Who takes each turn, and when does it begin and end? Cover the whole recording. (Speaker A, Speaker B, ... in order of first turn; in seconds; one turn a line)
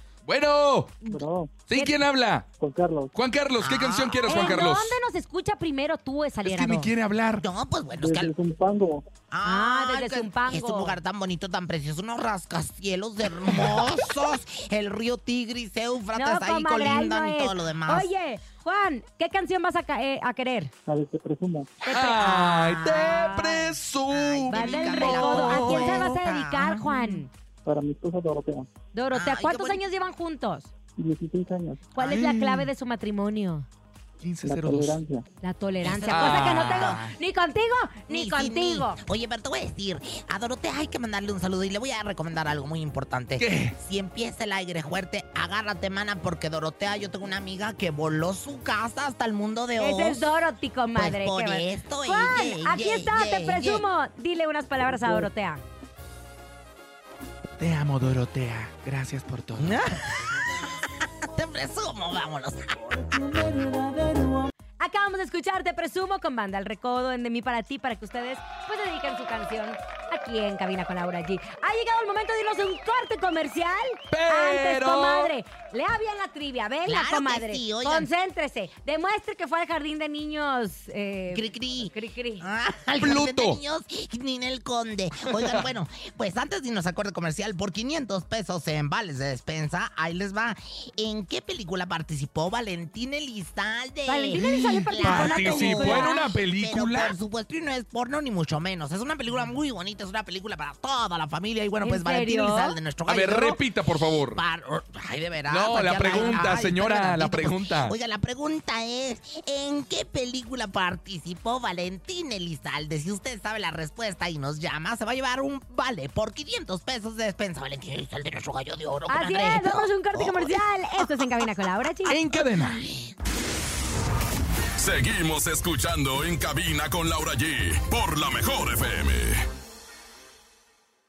Speaker A: 0.3-1.0
Speaker B: 1.1-1.6
Speaker A: 1.7-2.5
Speaker C: 1.7-2.0
Speaker B: 2.6-3.1
Speaker A: 3.1-5.0
Speaker D: 3.6-4.7
Speaker C: 4.3-6.9
Speaker A: 6.5-7.5
Speaker D: 7.4-8.3
Speaker B: 8.0-9.1
Speaker D: 9.3-18.1
Speaker C: 9.4-11.0
Speaker C: 16.1-20.7
Speaker B: 20.9-21.8
Speaker C: 21.9-23.8
Speaker A: 21.9-26.1
Speaker D: 21.9-23.5
Speaker D: 24.1-27.1
Speaker C: 24.5-27.3
Speaker B: 27.6-28.7
Speaker C: 28.9-30.7
Speaker D: 29.1-29.8
Speaker B: 31.0-31.9
Speaker C: 31.9-33.7
Speaker A: 32.0-32.7
Speaker A: 34.2-35.0
Speaker B: 34.4-35.3
Speaker C: 35.4-39.0
Speaker D: 35.8-37.0
Speaker A: 36.1-37.1
Speaker D: 38.1-50.3
Speaker A: 43.4-43.8
Speaker C: 49.8-55.6
Speaker D: 51.0-53.9
Speaker A: 57.6-59.8
Speaker D: 59.6-63.1
Speaker A: 63.4-64.5
Speaker C: 64.8-82.5
Speaker A: 74.1-75.3
Speaker D: 76.8-78.1
Speaker D: 81.3-103.6
Speaker A: 83.0-83.6
Speaker C: 94.1-96.3
Speaker A: 95.0-97.1
Speaker C: 101.8-102.8
Speaker A: 103.1-104.4
Speaker D: 104.3-121.5
Speaker A: 105.5-107.9
Speaker C: 119.1-122.2
Speaker A: 122.1-122.8
Speaker D: 122.3-123.1
Speaker E: 124.8-129.4